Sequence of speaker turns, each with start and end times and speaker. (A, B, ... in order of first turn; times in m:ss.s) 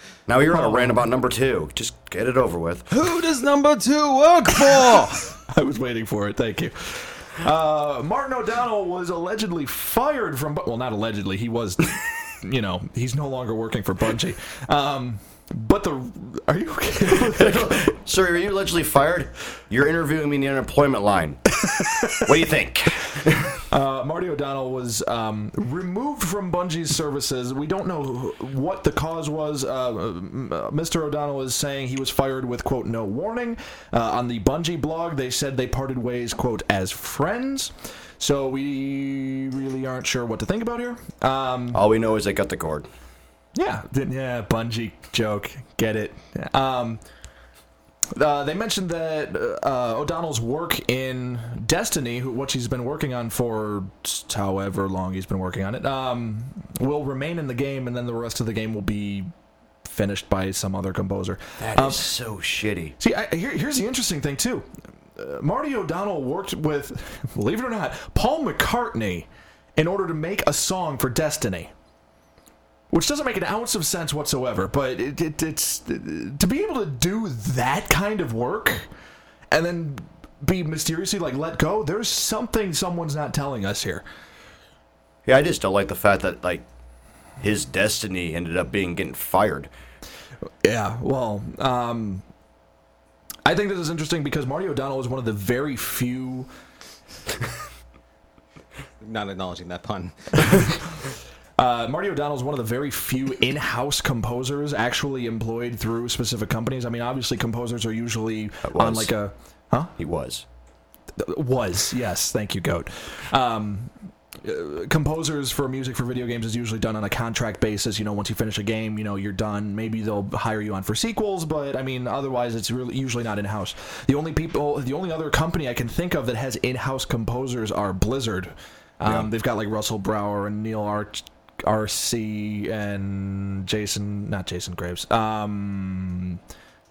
0:00.3-0:02.9 A
0:00.5-0:01.0 B
0:02.9-0:05.3 C
0:05.5-0:17.9 B
0:17.3-0:21.6 A
0:21.7-0:22.2 B
0:22.1-0:23.6 A
0:23.7-0:41.8 B
0:41.7-0:42.9 A
0:43.5-0:47.0 B
0:48.1-0:59.3 B
0:59.8-1:02.1 B
1:01.6-1:03.0 A
1:03.0-1:11.7 B
1:12.9-1:18.9 B
1:19.5-1:24.0 B
1:25.2-1:26.6 A
1:27.4-1:29.7 A
1:30.6-1:32.2 B
1:33.4-1:36.5 B
1:39.0-1:40.7 C
1:41.6-1:49.9 B
1:48.6-1:49.1 A
1:50.0-1:50.4 A
1:51.2-2:16.4 B
2:09.0-2:09.3 A